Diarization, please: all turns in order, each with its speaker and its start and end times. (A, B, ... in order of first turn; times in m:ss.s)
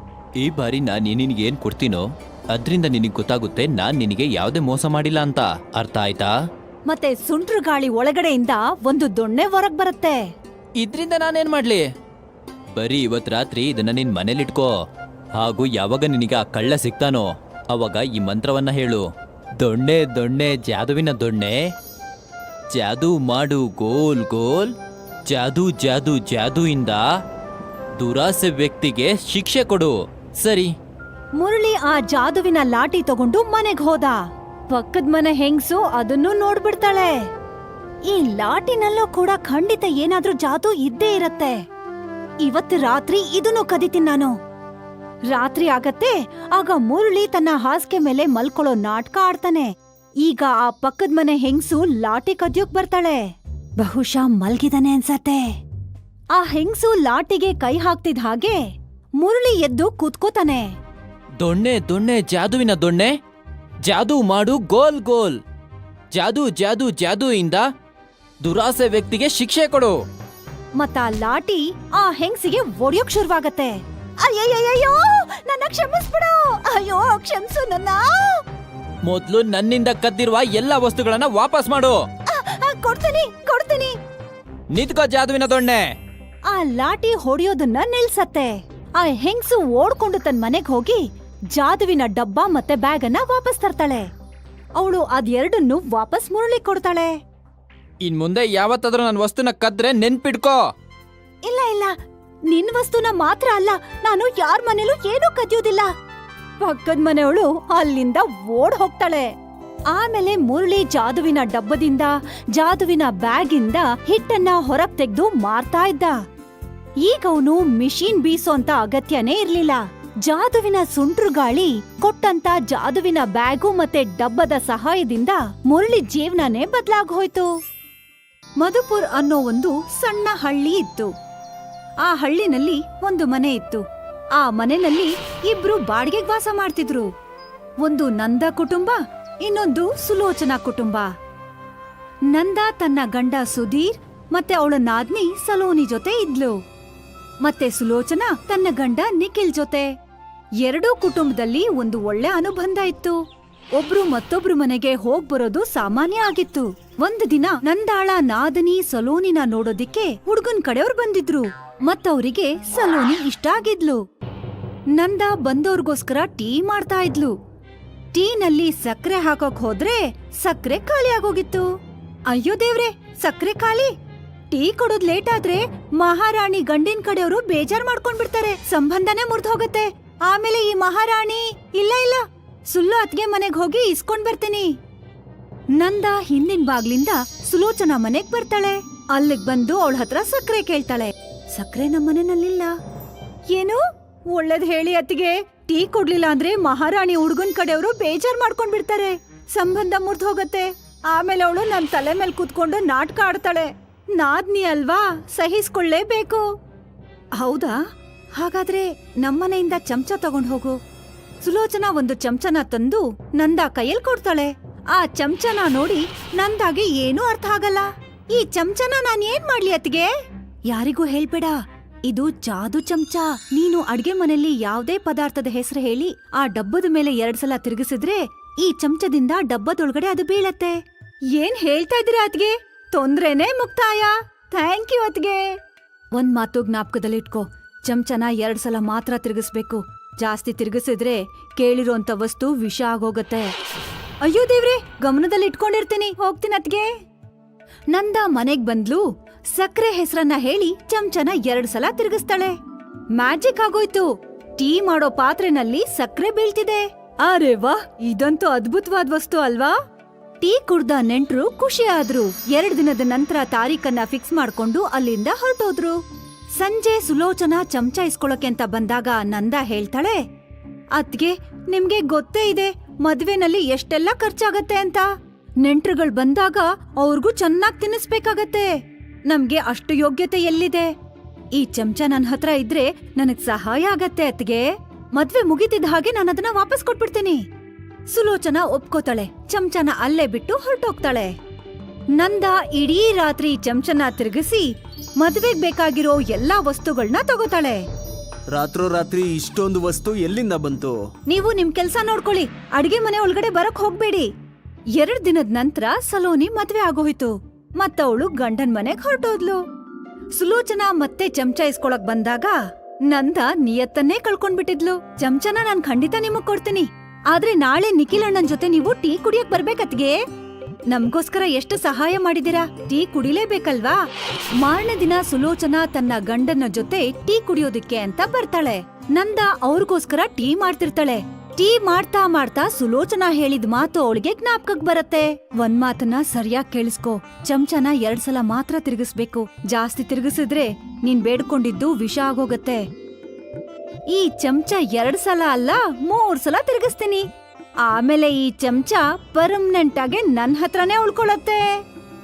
0:00.4-0:06.3 A
0:06.9-0:10.2 B
0:10.8-0:11.8 A
0:12.8-0:14.7 A
0:15.4-0:19.0 A
0:19.6-0:21.7 A
0:22.7-0:24.7 A
0:25.3-0:27.0 A
0:28.0-0:30.7 A
0:31.4-0:34.2 B
0:34.7-0:37.2 B
0:38.1-0:41.6 B
0:42.4-0:44.3 B
0:45.3-0:53.2 B
0:53.8-0:55.5 B
0:56.3-0:58.6 B
0:59.2-1:00.7 B
1:01.4-1:03.1 A
1:03.8-1:05.4 A
1:06.1-1:07.6 A
1:08.4-1:09.9 A
1:10.8-1:18.4 B
1:19.0-1:22.0 A
1:22.3-1:24.0 B
1:24.7-1:25.9 A
1:26.5-1:34.1 B
1:34.8-1:37.1 B
1:38.0-1:40.6 A
1:41.5-1:41.9 B
1:42.5-1:45.9 B
1:46.6-1:49.3 B
1:49.9-1:56.2 B
1:57.0-2:07.5 B
2:08.6-2:11.1 B
2:12.0-2:13.8 B
2:14.4-2:17.1 B
2:17.8-2:21.1 B
2:22.3-2:26.5 B
2:27.4-2:29.9 B
2:30.6-2:33.2 B
2:33.8-2:44.0 B
2:45.0-2:47.3 B
2:48.1-2:51.7 B
2:52.3-2:53.9 B
2:54.5-3:04.7 B
3:05.8-3:12.7 B
3:13.5-3:26.4 B
3:27.4-3:27.8 B
3:28.4-3:30.8 B
3:31.4-3:40.1 B
3:40.7-3:50.8 B
3:51.3-3:55.4 B
3:56.1-4:03.5 B
4:04.2-4:06.9 B
4:07.9-4:09.0 B
4:09.5-4:12.5 B
4:13.2-4:14.1 B
4:14.6-4:19.7 B
4:20.4-4:26.0 B
4:26.6-4:30.2 B
4:30.9-4:35.1 B
4:35.6-4:38.7 B
4:39.3-4:40.9 B
4:41.6-4:47.4 B
4:48.1-4:51.3 B
4:52.2-4:57.8 B
4:58.5-5:01.0 C
5:01.3-5:04.3 B
5:05.0-5:09.6 B
5:10.4-5:12.6 B
5:13.1-5:20.2 B
5:20.9-5:24.0 B
5:24.6-5:42.9 B
5:44.1-5:47.3 B
5:47.8-5:51.7 B